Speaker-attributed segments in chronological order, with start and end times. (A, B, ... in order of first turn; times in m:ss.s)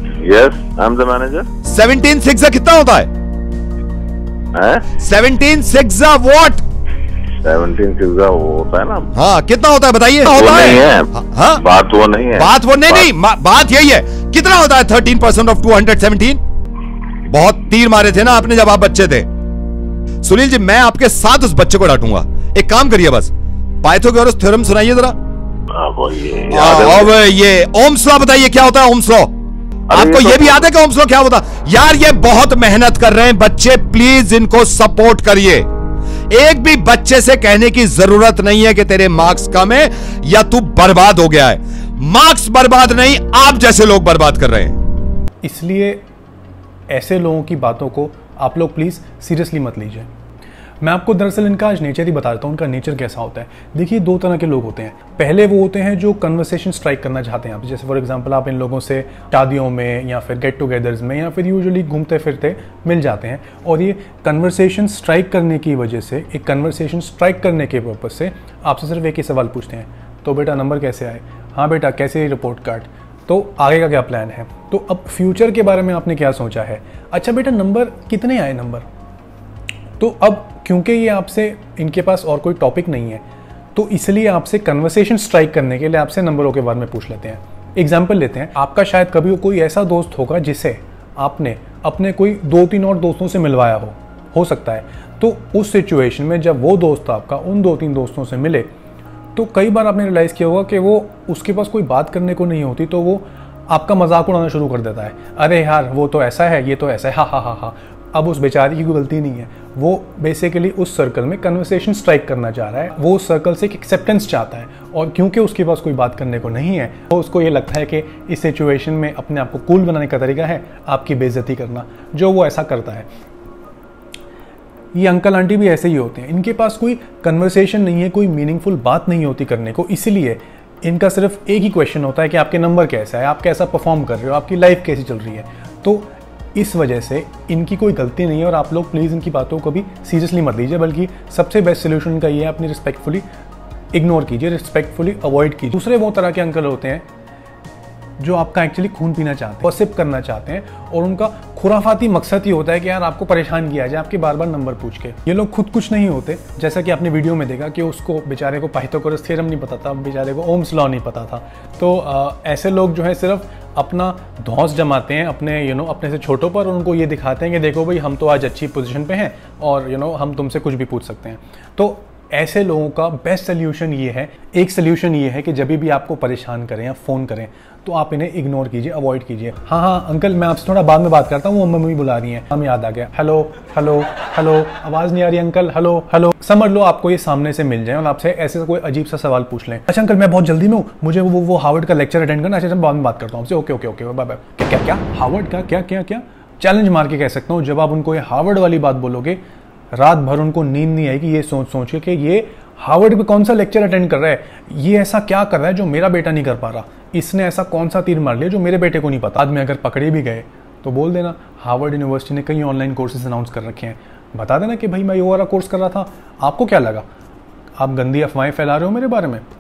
0:00.2-0:01.5 A
0:01.6-0:03.1 B
0:04.5-0:04.9 A
0:05.0-0:06.6 B
0:07.4-0:09.1 A
0:09.2-0:11.6 B
0:10.3-0:13.1 A
0:12.4-0:16.4 B
0:17.3-0:19.3 B
0:20.2-0:23.3 B
0:23.8-0:25.2 B
0:25.7-0:27.1 A
0:26.5-0:29.3 B
0:29.9-0:30.6 A
0:29.9-0:35.7 B
0:36.3-0:44.8 B
0:45.4-0:46.0 C
0:46.9-0:50.1 C
0:50.8-1:18.8 C
1:20.0-1:23.2 C
1:23.8-1:38.7 C
1:39.4-2:03.1 C
2:05.0-2:23.2 C
2:23.9-2:27.0 C
2:28.2-3:19.4 C
3:20.0-3:37.0 C
3:37.8-3:39.4 C